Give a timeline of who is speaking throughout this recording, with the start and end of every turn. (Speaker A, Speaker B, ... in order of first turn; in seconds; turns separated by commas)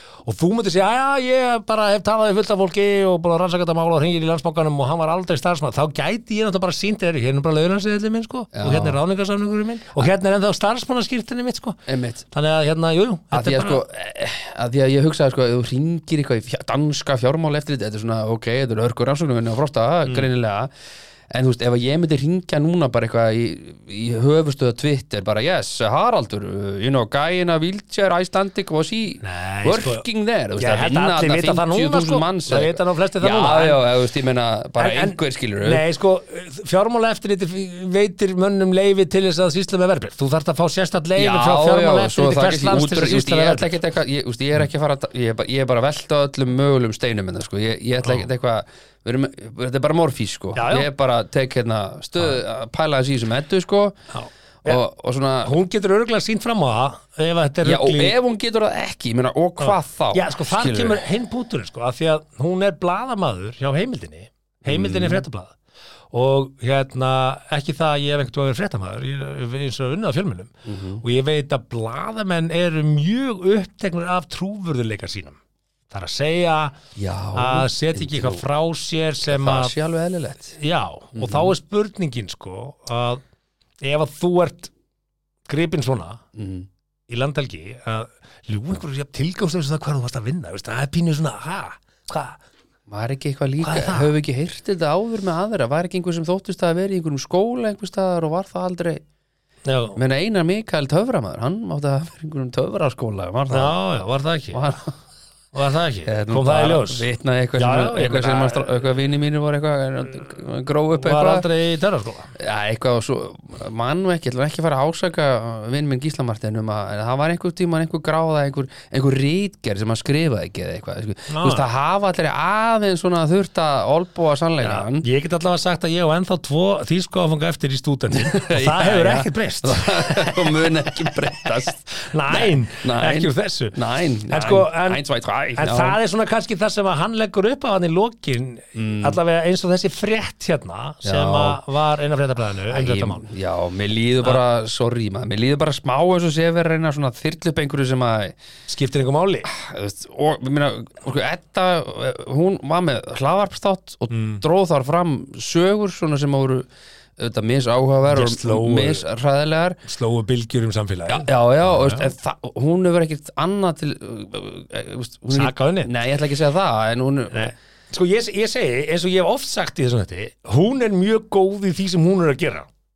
Speaker A: 0.2-11.8, Speaker B: 8.5-9.0, Speaker B: 11.9-12.2, Speaker A: 12.3-13.8, Speaker B: 13.3-20.7, Speaker B: 21.3-35.8, Speaker A: 29.2-30.1, Speaker A: 30.6-33.8, Speaker A: 34.8-43.8, Speaker B: 41.1-54.0, Speaker A: 50.5-50.9, Speaker A: 54.1-54.8, Speaker B: 54.6-55.5, Speaker A: 55.4-58.1, Speaker B: 57.6-61.0, Speaker A: 59.6-65.5, Speaker B: 64.7-65.2, Speaker A: 66.1-75.4, Speaker B: 70.6-71.0, Speaker A: 75.9-76.8, Speaker B: 77.0-78.4, Speaker A: 77.3-79.7, Speaker B: 79.2-80.6, Speaker A: 80.5-83.2, Speaker B: 81.1-81.5, Speaker A: 83.8-84.7, Speaker A: 85.5-86.2, Speaker B: 86.3-86.7, Speaker A: 87.1-92.4, Speaker B: 92.9-99.0, Speaker A: 93.6-94.1, Speaker A: 99.7-100.0, Speaker B: 100.0-103.8, Speaker A: 103.5-104.7, Speaker B: 104.5-104.9, Speaker A: 105.5-108.8, Speaker B: 106.1-111.5, Speaker A: 111.0-112.3, Speaker B: 112.3-125.0, Speaker A: 121.3-121.7, Speaker A: 124.6-135.0, Speaker B: 128.1-136.0, Speaker A: 135.6-143.3, Speaker B: 138.8-139.2, Speaker B: 141.0-141.6, Speaker B: 142.7-148.3, Speaker A: 148.7-149.5, Speaker B: 149.5-159.8, Speaker A: 154.1-154.4, Speaker A: 158.1-159.0, Speaker A: 159.8-162.1, Speaker B: 161.1-167.5, Speaker A: 165.3-165.9, Speaker A: 167.3-172.7